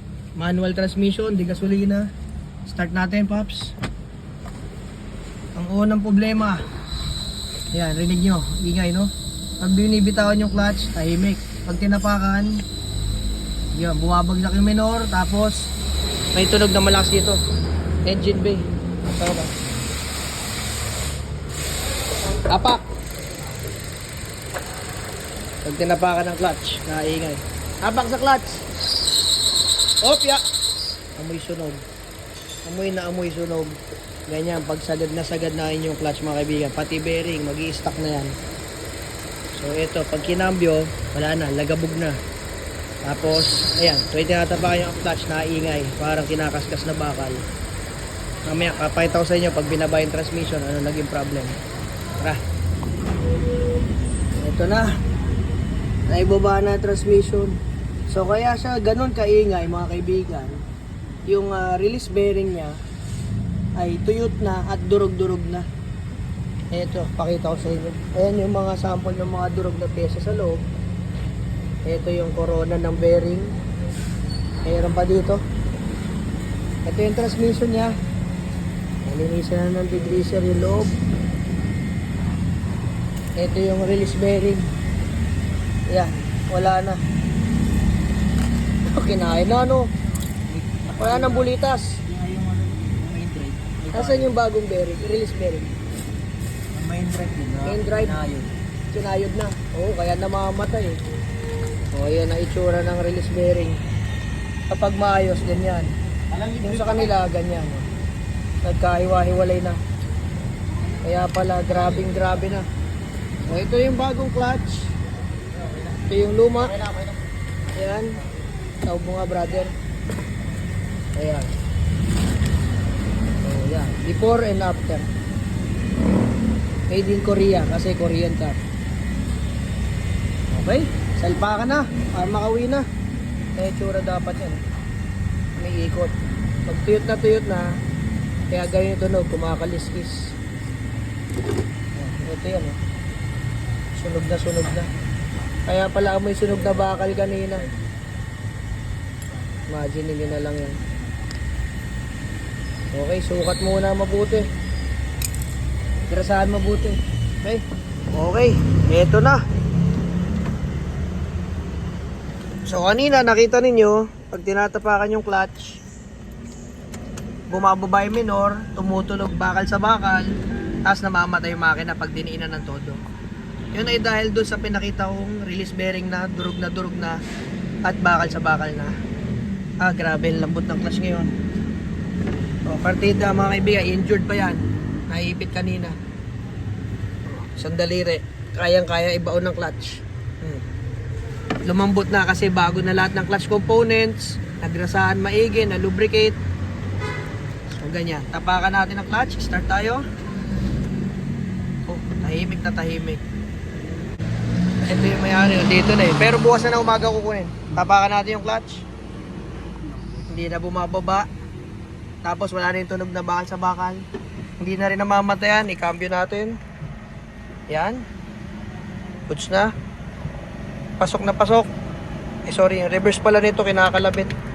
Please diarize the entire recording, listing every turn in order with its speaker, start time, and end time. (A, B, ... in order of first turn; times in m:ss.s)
0:00.4-0:02.1 A
0:02.7-0:03.7 A
0:05.5-0:06.6 A
0:07.7-0:12.6 A
0:13.8-0:15.7 A
0:16.3-0:17.4 A
0:18.0-0:19.5 A
0:22.5-0:22.8 A
0:25.6-0:28.6 A
0:30.0-0:30.4 A
0:31.2-0:31.8 A
0:32.6-0:33.8 A
0:34.3-0:38.3 A
0:39.5-0:42.2 A
0:43.0-0:47.4 A
0:48.4-0:51.6 A
0:54.4-0:55.0 A
0:56.1-1:00.6 A
1:01.3-1:02.8 A
1:03.8-1:05.7 A
1:06.7-1:10.6 A
1:11.9-1:13.5 A
1:14.6-1:15.4 A
1:16.9-1:18.0 A
1:19.0-1:20.9 A
1:23.4-1:24.7 A
1:25.9-1:27.0 A
1:28.9-1:29.9 A
1:30.4-1:31.5 B
1:31.0-1:32.0 A
1:32.1-1:34.3 B
1:33.9-1:35.7 A
1:36.7-1:38.5 B
1:37.6-1:38.2 A
1:38.9-1:41.0 A
1:41.9-1:43.8 A
1:44.7-1:45.9 A
1:46.3-1:47.1 B
1:46.6-1:47.9 A
1:48.6-1:49.8 A
1:51.0-1:52.7 A
1:53.4-1:54.9 A
1:56.1-1:56.8 A
1:57.8-1:58.2 A
1:58.9-1:59.7 A
2:01.2-2:01.5 A
2:03.4-2:05.1 A
2:06.9-2:08.6 A
2:10.5-2:12.9 A
2:13.6-2:14.6 A
2:15.6-2:16.2 A
2:16.7-2:17.7 A
2:18.5-2:20.3 A
2:22.0-2:22.8 A
2:24.0-2:24.9 A
2:25.7-2:27.7 A
2:29.7-2:30.8 A
2:32.9-2:34.5 A
2:36.1-2:39.4 A
2:42.7-2:45.8 A
2:47.5-2:50.3 A
2:50.8-2:53.0 A
2:53.7-2:57.2 A
2:57.8-2:58.9 A
2:59.8-3:01.3 A
3:02.7-3:06.0 A
3:07.3-3:10.6 A
3:11.7-3:16.4 A
3:17.7-3:20.0 A
3:21.9-3:23.2 A
3:24.8-3:28.8 A
3:30.3-3:31.3 A
3:32.2-3:34.0 A
3:34.6-3:36.6 A
3:37.7-3:38.0 A
3:39.3-3:39.7 A
3:41.0-3:41.7 A
3:42.5-3:44.3 A